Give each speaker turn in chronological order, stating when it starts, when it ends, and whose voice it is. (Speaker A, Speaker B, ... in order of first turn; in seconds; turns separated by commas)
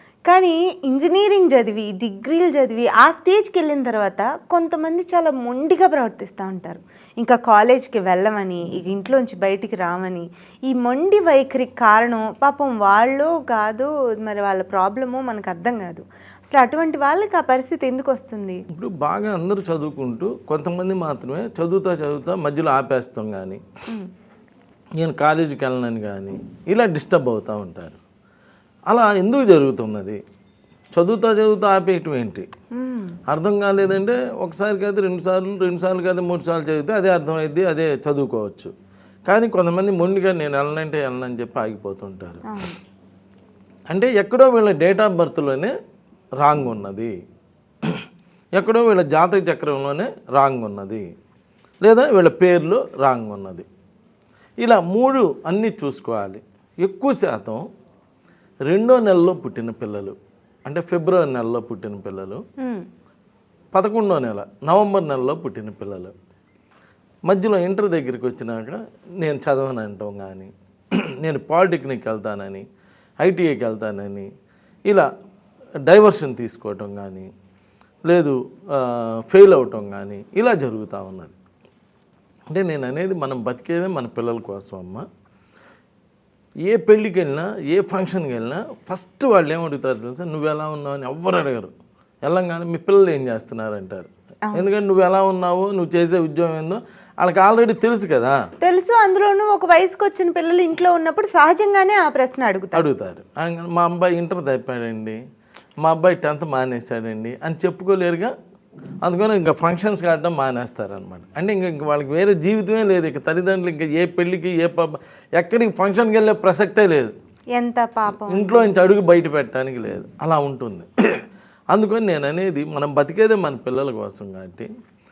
Speaker A: 0.3-18.6, Speaker B: 18.7-23.6, Speaker B: 25.0-28.0, Speaker B: 28.9-30.2, Speaker B: 30.9-32.5, Speaker A: 32.7-33.2, Speaker B: 33.3-38.7, Speaker B: 39.3-42.4, Speaker A: 42.5-42.8, Speaker B: 43.9-45.7, Speaker B: 46.4-47.1, Speaker B: 48.5-51.0, Speaker B: 51.8-53.7, Speaker B: 54.6-57.6, Speaker B: 58.7-60.1, Speaker B: 60.6-62.4, Speaker A: 62.6-62.9, Speaker B: 63.7-66.1, Speaker B: 67.3-72.6, Speaker B: 73.2-74.3, Speaker B: 75.9-77.3, Speaker B: 78.1-81.3, Speaker B: 82.5-85.0, Speaker B: 86.6-91.7, Speaker B: 92.2-98.4, Speaker A: 98.6-102.8, Speaker B: 102.7-105.2, Speaker B: 105.8-108.3, Speaker B: 109.0-117.1, Speaker A: 117.5-118.7, Speaker B: 118.2-120.9, Speaker B: 121.7-124.7